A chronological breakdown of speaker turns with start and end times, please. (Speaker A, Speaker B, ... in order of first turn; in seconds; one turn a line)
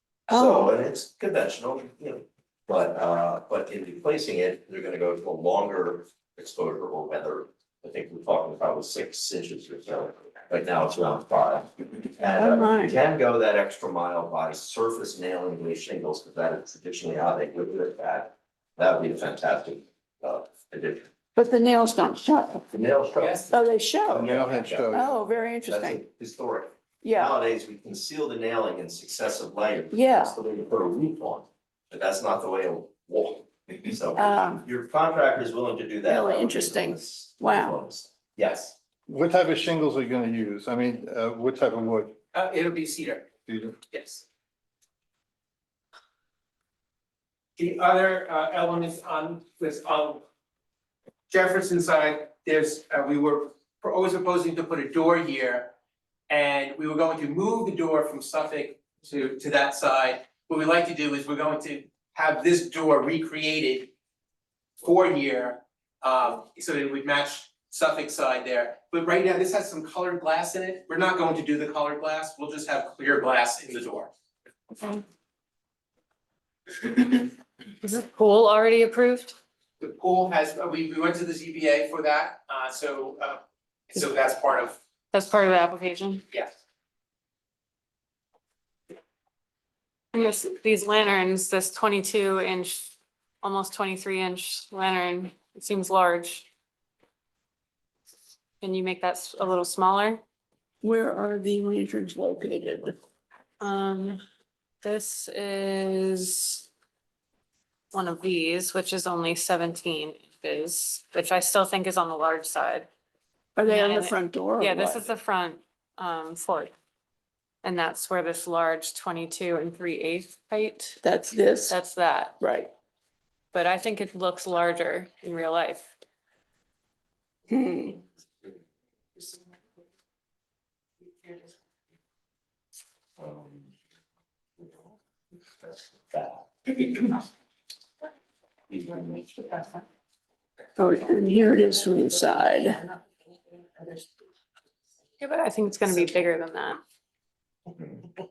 Speaker A: 0.3-0.8
Speaker B: 0.3-21.1
Speaker A: 12.4-12.9
Speaker A: 21.3-22.8
Speaker B: 22.7-23.5
Speaker C: 23.2-23.5
Speaker A: 23.5-24.3
Speaker D: 24.1-25.1
Speaker B: 24.1-25.0
Speaker A: 24.9-26.0
Speaker B: 25.6-38.7
Speaker A: 27.0-27.3
Speaker A: 29.9-30.4
Speaker A: 34.1-34.6
Speaker A: 36.0-37.8
Speaker D: 39.1-42.2
Speaker C: 42.3-43.3
Speaker D: 43.5-43.8
Speaker C: 43.9-44.2
Speaker C: 47.6-50.2
Speaker C: 51.3-55.7
Speaker C: 56.3-63.9
Speaker C: 64.8-74.1
Speaker E: 76.8-77.3
Speaker E: 77.8-79.3
Speaker C: 79.8-84.8
Speaker E: 85.1-86.2
Speaker E: 90.1-96.5
Speaker E: 98.6-100.2
Speaker A: 100.8-103.0
Speaker E: 103.6-104.2
Speaker E: 104.8-106.7
Speaker E: 107.9-112.9
Speaker A: 113.5-115.0
Speaker E: 113.7-116.7
Speaker E: 117.6-121.0
Speaker A: 121.0-121.8
Speaker E: 121.7-122.4
Speaker A: 122.4-122.7
Speaker E: 123.5-125.9
Speaker A: 127.5-128.0
Speaker B: 133.2-133.7
Speaker B: 136.1-136.8
Speaker B: 138.7-139.7
Speaker A: 140.8-142.8
Speaker E: 145.2-146.8